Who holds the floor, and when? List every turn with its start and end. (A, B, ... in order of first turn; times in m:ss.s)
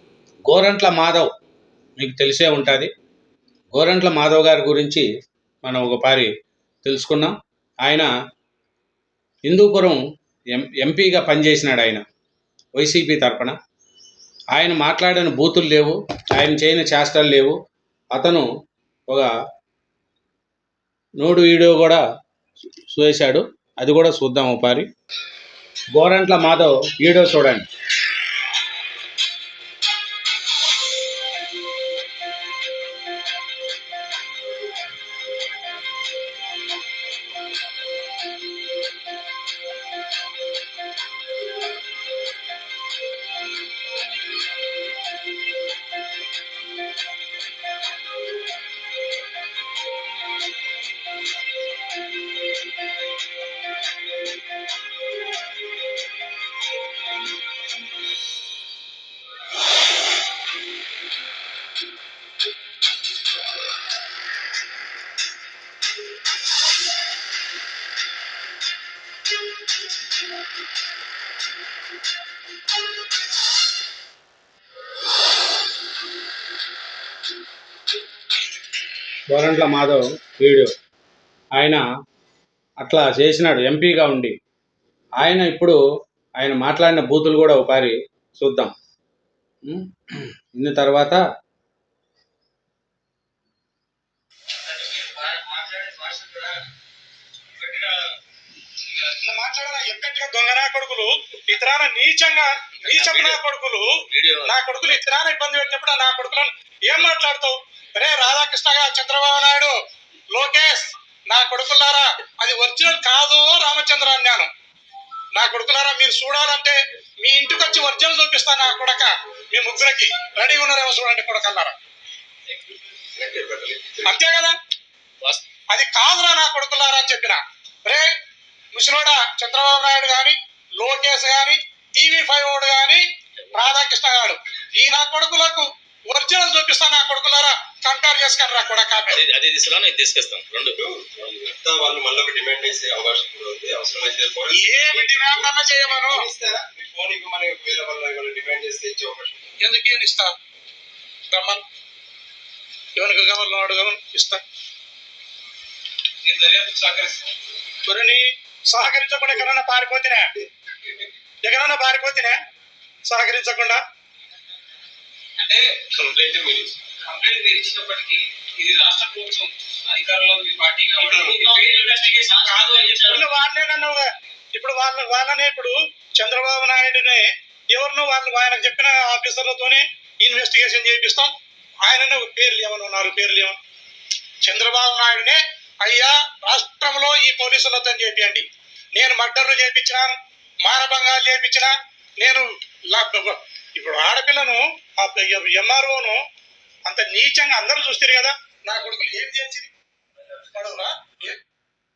0:00.5-0:01.3 A
0:02.0-0:02.9 A
0:03.7-0:05.1 A
0:05.6-0:06.3 A
0:06.8-0:07.3 A
0:07.8-0:08.1 A
0:09.5-0:10.0 A
0:10.5-0:12.0 A
0:12.8-0:13.6 A
0:14.5-0:17.6 A
0:18.1-0:18.4 A
0:21.2-0:22.0 A
0:22.9-0:24.9 A
0:25.9-0:27.7 A
1:19.3-1:20.7 A
1:21.6-1:21.8 A
1:22.8-1:24.4 A
1:25.2-1:25.8 A
1:26.4-1:28.7 A
1:29.6-1:31.2 A
1:34.7-1:36.6 B
1:37.6-1:38.1 B
1:38.8-1:39.1 B
1:39.2-1:43.9 C
1:42.8-1:43.4 B
1:44.0-1:45.0 B
1:44.4-1:49.7 C
1:50.3-1:54.5 C
1:55.3-2:01.8 C
2:03.1-2:04.2 D
2:04.0-2:04.6 C
2:05.7-2:08.1 C
2:08.7-2:19.2 C
2:19.1-2:21.3 B
2:20.8-2:29.5 D
2:24.5-2:26.2 C
2:29.6-2:30.3 C
2:31.3-2:31.6 C
2:33.0-2:34.4 C
2:36.2-2:37.3 E
2:37.8-2:40.3 C
2:41.4-2:42.4 C
2:43.1-2:43.8 C
2:45.4-2:45.8 E
2:46.0-2:46.8 D
2:47.0-2:52.1 E
2:51.0-2:51.5 D
2:51.1-2:53.2 B
2:52.5-3:01.3 C
2:52.7-2:53.2 E
3:01.8-3:03.6 C
3:04.4-3:08.5 C
3:09.0-3:16.2 C
3:16.9-3:19.7 C
3:20.4-3:21.4 C